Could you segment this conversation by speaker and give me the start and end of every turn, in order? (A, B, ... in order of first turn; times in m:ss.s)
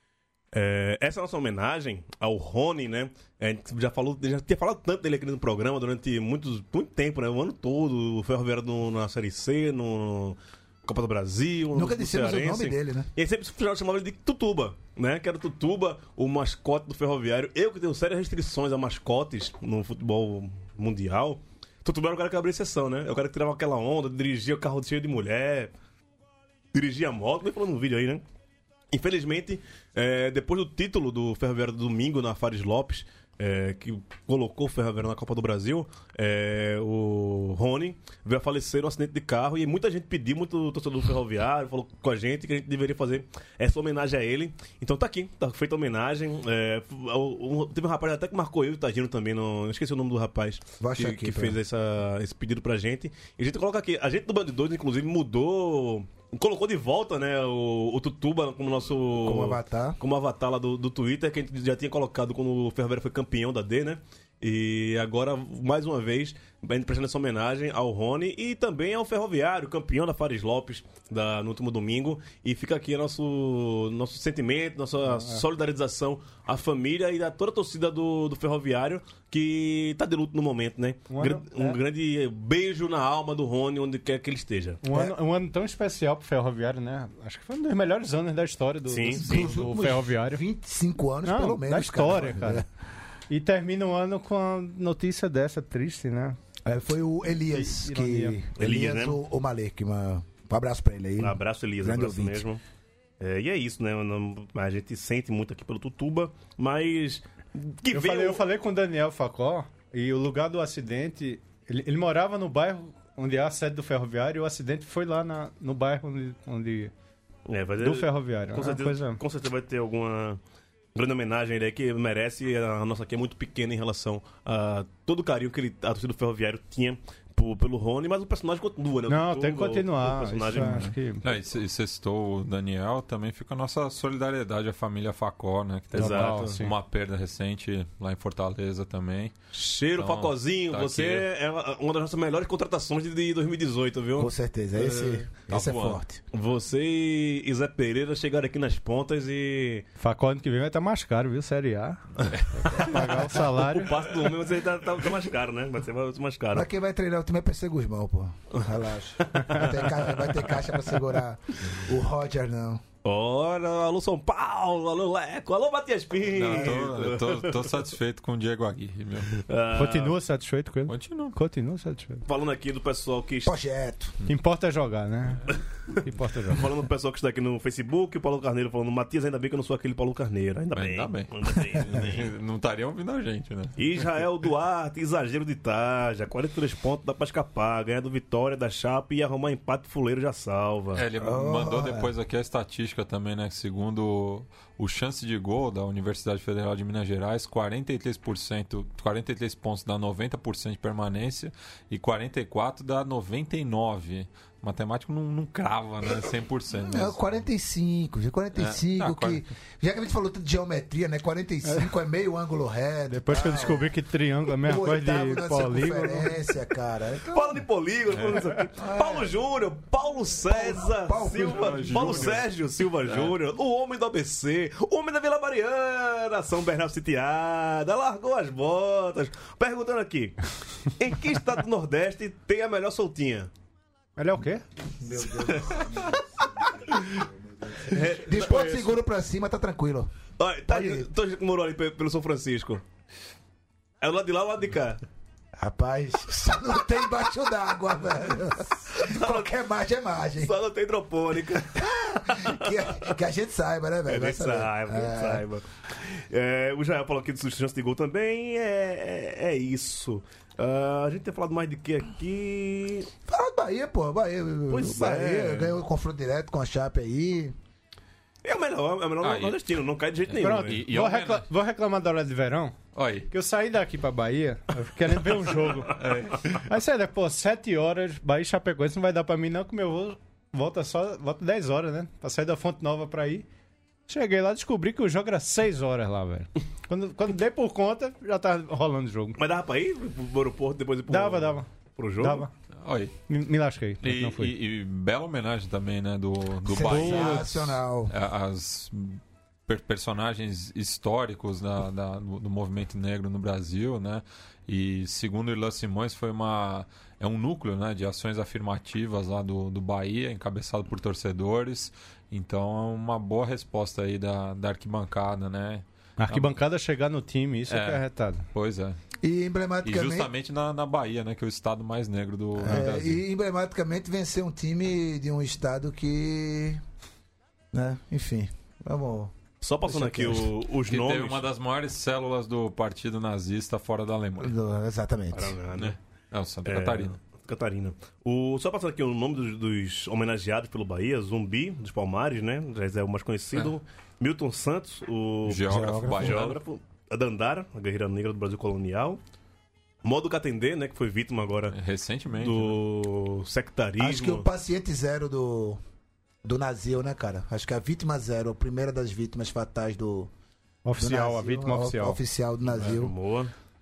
0:00.5-0:25.7 A
0:11.7-0:13.1 B
0:26.7-0:28.2 A
0:28.9-1:24.8 A
0:50.8-0:51.6 B
0:59.2-1:00.0 B
1:15.1-1:15.4 C
1:21.1-1:21.8 C
1:24.8-1:30.4 C
1:28.9-1:29.6 A
1:29.2-1:32.7 B
1:31.2-1:32.6 C
1:33.3-1:36.4 C
1:36.7-1:42.5 B
1:37.5-1:38.4 C
1:38.6-1:39.2 A
1:41.2-1:42.6 A
1:43.2-1:48.4 A
1:47.9-1:56.9 C
1:57.5-2:00.4 A
1:57.8-1:59.2 C
2:01.0-2:10.9 A
2:09.1-2:11.2 C
2:10.6-2:19.3 D
2:15.9-2:16.6 A
2:15.9-2:16.7 C
2:19.5-2:25.3 A
2:20.0-2:21.3 D
2:24.2-2:26.2 B
2:25.5-2:26.0 D
2:26.3-2:29.9 A
2:30.0-2:34.0 C
2:32.2-2:36.7 A
2:32.4-2:32.8 D
2:36.5-2:42.8 B
2:39.2-2:40.8 A
2:43.0-2:47.7 A
2:46.3-2:49.4 D
2:49.3-2:50.2 A
2:49.7-2:52.2 C
2:50.9-2:51.4 D
2:52.3-2:53.6 A
2:53.4-2:54.2 B
2:54.3-2:55.5 C
2:56.0-2:56.7 C
2:56.5-3:02.3 A
3:00.7-3:04.1 D
3:03.8-3:11.0 A
3:10.9-3:27.2 D
3:11.2-3:12.1 B
3:26.7-3:37.6 B
3:28.6-3:29.4 D
3:33.1-3:36.3 C
3:37.3-3:53.5 A
3:38.1-3:38.4 D
3:38.8-3:39.4 B
3:40.4-3:42.4 B
3:41.4-3:42.5 D
3:43.0-3:43.3 D
3:54.2-3:54.6 C
3:55.0-4:00.1 B
3:55.3-3:57.3 A
3:57.8-3:59.0 A
4:00.4-4:02.8 A
4:00.7-4:01.1 B
4:04.0-4:05.0 A
4:05.6-4:10.6 B
4:09.0-4:09.5 A
4:10.4-4:13.0 A
4:11.8-4:15.5 B
4:14.1-4:23.1 A
4:23.3-4:27.6 B
4:24.7-4:25.7 A
4:28.4-4:30.8 A
4:29.2-4:29.6 D
4:30.3-4:31.5 D
4:30.4-4:32.8 C
4:33.0-4:33.3 D
4:33.3-4:36.0 C
4:36.0-4:36.7 D
4:36.6-4:43.5 C
4:44.1-4:49.4 C
4:49.4-4:52.5 A
4:51.1-4:51.7 C
4:52.2-4:52.5 C
4:52.8-4:53.2 D
4:53.3-4:54.5 C
4:54.0-5:16.6 D
4:56.6-4:58.2 B
4:56.8-4:57.6 C
5:16.2-5:18.5 C
5:17.7-5:19.0 D
5:19.2-5:20.3 B
5:19.8-5:23.2 D
5:22.6-5:26.8 B
5:27.7-5:29.3 B
5:29.6-5:31.5 A
5:29.8-5:30.5 B
5:30.9-5:34.6 D
5:34.4-5:35.6 B
5:35.3-5:36.0 A
5:35.8-5:37.2 D
5:36.6-5:49.2 A
5:45.5-5:46.6 D
5:45.7-5:46.4 B
5:50.0-5:51.8 A
5:51.7-5:52.8 D
5:52.4-5:54.5 A
5:54.0-5:55.8 B
5:56.4-6:00.3 B
6:00.8-6:02.2 C
6:01.0-6:03.2 B
6:02.7-6:03.5 A